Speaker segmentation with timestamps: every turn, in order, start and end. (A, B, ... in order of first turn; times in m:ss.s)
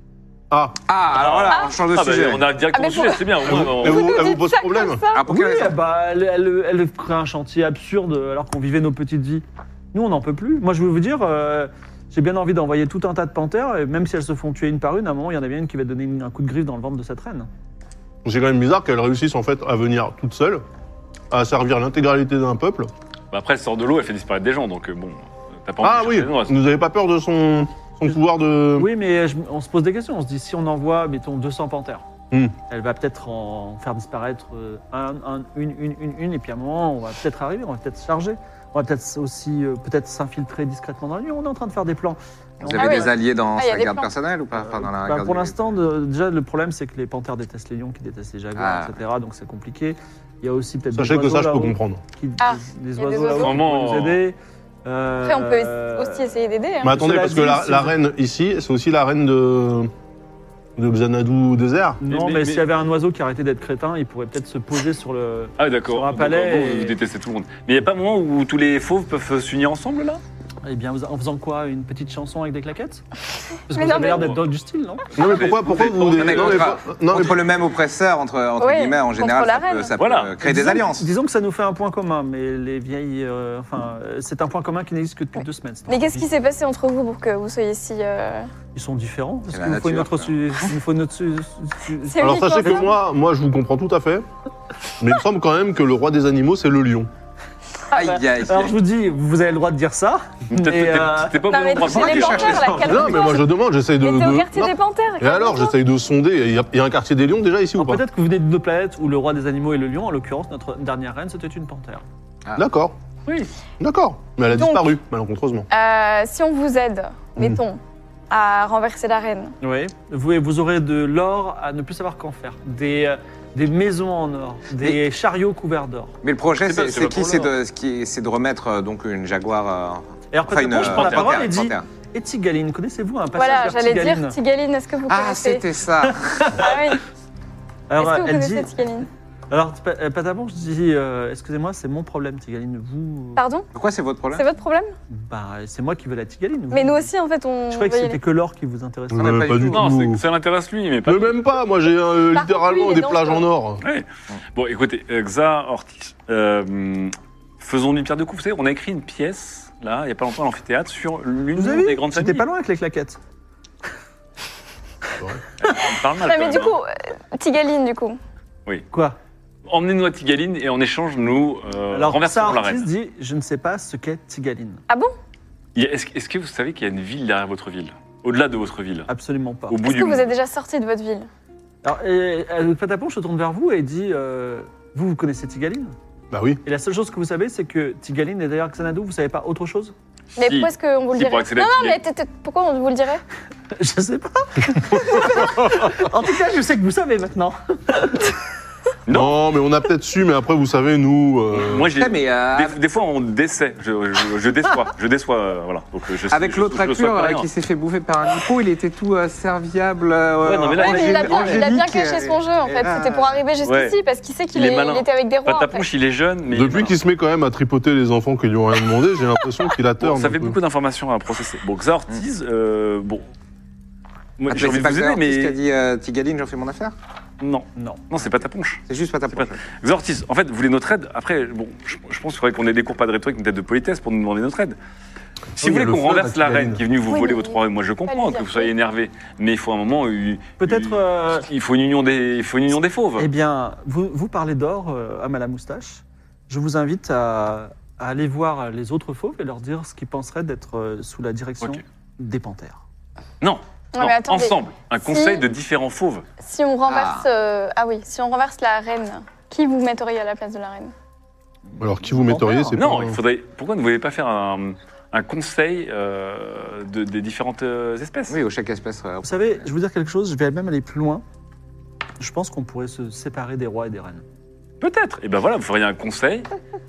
0:00.5-0:00.8 A
0:00.9-0:02.6 B
0:01.2-0:04.2 C
0:02.7-0:05.2 D
0:03.4-0:05.0 A
0:05.1-0:05.8 B
0:05.3-0:17.5 E
0:18.2-0:20.6 A
0:21.3-0:22.9 A
0:23.3-0:26.6 C
0:25.8-0:28.9 A
0:28.8-0:32.0 E
0:32.3-0:32.6 A
0:32.7-0:43.1 E
0:42.6-0:45.5 B
0:42.7-0:44.1 D
0:44.6-0:58.0 E
0:48.6-0:49.0 B
0:50.9-0:52.0 A
0:52.4-0:53.6 D
0:53.3-0:54.2 C
0:55.2-0:57.0 D
0:56.8-0:59.9 A
1:00.8-1:02.0 A
1:02.0-1:07.0 E
1:02.1-1:02.6 C
1:05.6-1:10.2 C
1:10.6-1:13.0 E
1:13.7-1:15.0 E
1:13.7-1:14.4 D
1:15.2-1:16.8 C
1:15.2-1:17.5 A
1:15.6-1:21.1 B
1:18.6-1:19.9 D
1:20.0-1:20.3 C
1:20.4-1:26.3 E
1:25.4-1:28.5 D
1:28.7-1:32.9 E
1:29.5-1:30.3 B
1:32.1-1:33.0 D
1:32.2-1:34.3 A
1:35.0-1:37.1 A
1:37.9-1:38.8 B
1:38.0-1:41.5 E
1:40.5-1:43.0 C
1:41.4-1:45.7 D
1:41.8-1:43.3 B
1:42.8-1:48.0 A
1:47.8-1:52.0 E
1:52.6-1:53.0 A
1:53.8-1:55.7 A
1:54.5-1:54.9 D
1:55.7-1:59.6 D
1:59.6-2:06.1 E
2:06.2-2:11.8 B
2:06.6-2:07.5 C
2:10.3-2:14.4 E
2:10.7-2:11.4 C
2:13.4-2:15.7 D
2:15.1-2:16.6 B
2:16.1-2:16.7 E
2:16.6-2:17.0 D
2:17.9-2:18.8 E
2:18.0-2:19.1 D
2:19.5-2:23.4 E
2:23.4-2:23.7 D
2:23.7-2:24.5 B
2:24.3-2:24.9 D
2:25.1-2:27.1 E
2:26.7-2:28.2 D
2:27.7-2:29.6 E
2:29.1-2:30.2 A
2:29.2-2:29.9 B
2:29.7-2:31.4 C
2:31.0-2:33.8 A
2:32.3-2:33.4 D
2:33.8-2:42.4 C
2:41.6-2:43.2 E
2:45.6-2:46.8 C
2:46.2-2:48.2 D
2:48.9-2:49.2 E
2:49.7-2:52.9 C
2:51.9-2:54.8 E
2:54.9-2:55.1 D
2:55.8-2:59.1 C
2:59.1-2:59.8 E
2:59.7-3:00.3 C
2:59.8-3:01.3 D
3:01.8-3:06.0 E
3:06.3-3:06.6 A
3:06.6-3:10.0 E
3:10.4-3:13.2 D
3:10.4-3:12.0 C
3:13.7-3:18.4 E
3:15.3-3:15.9 A
3:19.1-3:19.4 C
3:19.1-3:21.9 A
3:21.6-3:27.5 C
3:22.0-3:22.8 B
3:26.3-3:33.4 B
3:30.4-3:31.7 C
3:30.7-3:35.8 D
3:33.6-3:34.0 C
3:34.5-3:37.0 C
3:36.5-3:40.6 A
3:40.0-3:43.3 C
3:44.4-3:45.6 C
3:44.5-3:47.0 B
3:47.4-3:54.8 C
3:47.8-3:48.0 E
3:48.9-3:49.6 B
3:55.6-3:56.8 A
3:55.6-4:03.3 C
3:57.1-3:58.7 D
4:00.6-4:01.5 E
4:03.2-4:12.8 E
4:13.4-4:16.2 C
4:13.9-4:15.4 D
4:16.4-4:20.9 D
4:16.9-4:17.3 B
4:21.7-4:22.8 E
4:21.8-4:23.2 A
4:22.7-4:28.4 C
4:28.3-4:29.6 B
4:29.2-4:31.2 E
4:32.2-4:34.2 E
4:34.8-4:36.5 C